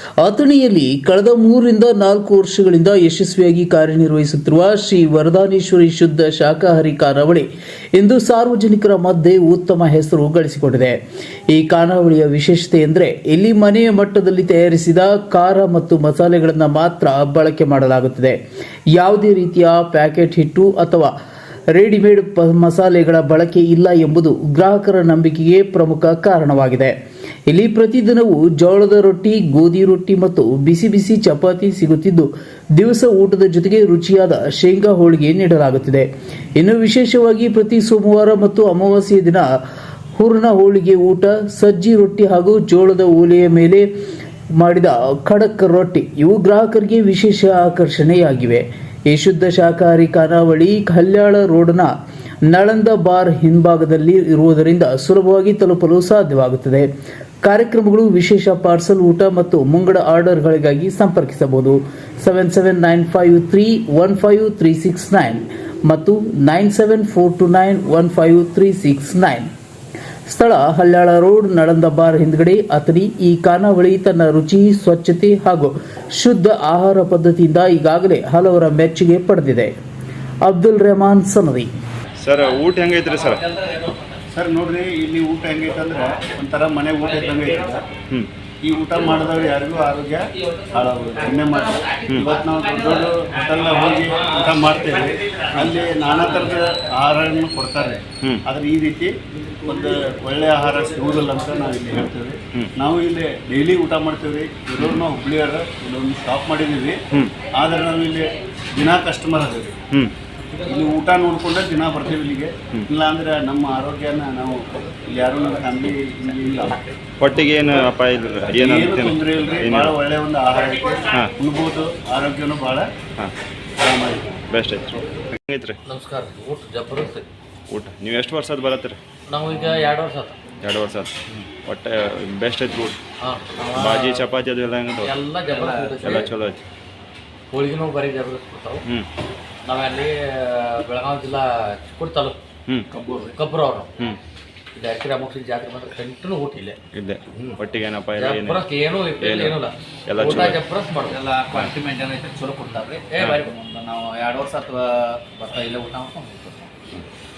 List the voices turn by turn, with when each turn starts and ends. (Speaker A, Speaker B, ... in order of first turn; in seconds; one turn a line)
Speaker A: 0.2-11.0
Speaker A: 11.5-18.4
Speaker A: 18.9-21.1
Speaker A: 21.7-26.9
Speaker A: 27.5-39.5
Speaker A: 40.2-43.9
Speaker A: 44.6-51.9
Speaker A: 52.5-56.9
Speaker A: 57.4-69.5
Speaker A: 70.3-79.7
Speaker A: 80.4-81.7
Speaker B: 82.2-83.4
Speaker C: 83.4-84.0
Speaker D: 84.3-87.8
Speaker D: 88.6-99.1
Speaker B: 92.1-92.3
Speaker D: 99.7-107.0
Speaker D: 107.5-109.7
Speaker D: 110.6-116.8
Speaker B: 117.2-120.0
Speaker D: 118.5-122.9
Speaker D: 123.8-124.4
Speaker B: 124.5-125.8
Speaker C: 125.8-127.3
Speaker B: 127.7-129.0
Speaker C: 129.3-130.4
Speaker B: 130.6-131.1
Speaker B: 131.6-133.0
Speaker C: 133.2-134.2
Speaker B: 133.7-135.1
Speaker C: 135.0-136.3
Speaker E: 135.5-136.1
Speaker B: 136.0-136.6
Speaker C: 137.5-138.8
Speaker C: 139.6-142.4
Speaker E: 142.9-143.3
Speaker C: 143.3-143.9
Speaker C: 144.7-146.8
Speaker B: 146.9-148.7
Speaker C: 148.2-151.2
Speaker B: 149.2-149.6
Speaker B: 150.1-150.6
Speaker E: 151.1-156.7
Speaker C: 153.0-153.5